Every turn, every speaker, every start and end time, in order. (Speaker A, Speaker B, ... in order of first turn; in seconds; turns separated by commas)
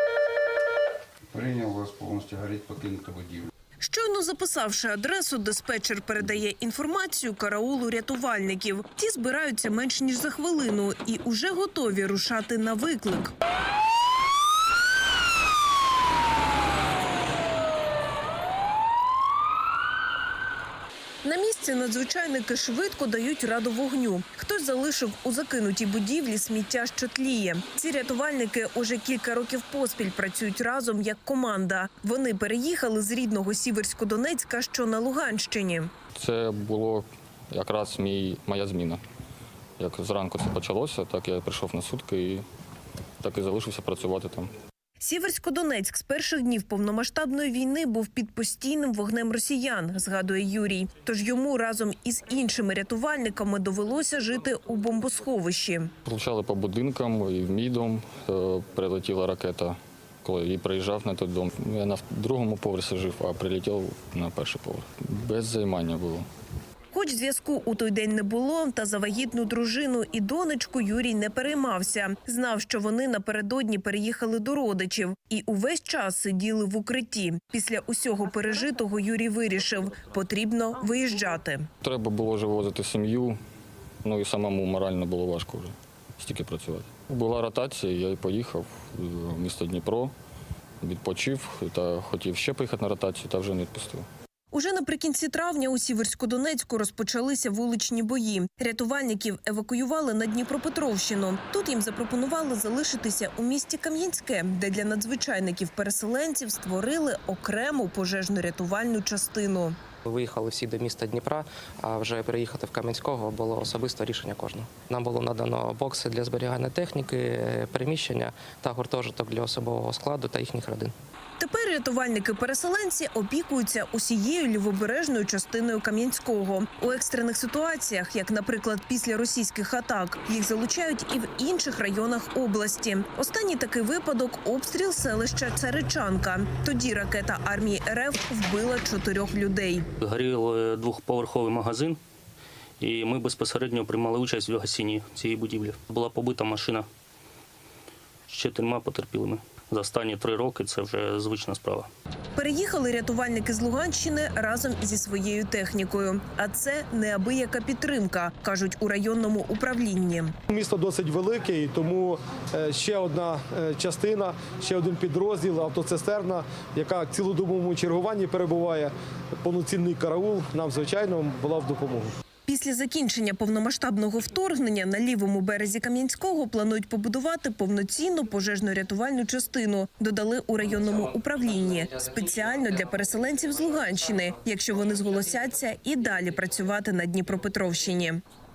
Speaker A: 1.3-3.5, Speaker B: 3.8-13.3, Speaker B: 21.2-35.9, Speaker C: 36.1-39.0, Speaker C: 39.8-42.4, Speaker C: 43.2-44.5, Speaker B: 45.0-55.9, Speaker C: 56.0-66.2, Speaker B: 66.9-81.7, Speaker C: 81.8-83.4, Speaker C: 84.0-90.1, Speaker C: 90.8-94.0, Speaker B: 94.5-109.8, Speaker D: 110.0-120.9, Speaker B: 121.4-139.9, Speaker E: 140.0-142.0, Speaker E: 142.8-146.9, Speaker E: 148.3-151.9, Speaker B: 152.3-160.3, Speaker F: 160.5-172.1, Speaker B: 172.4-188.2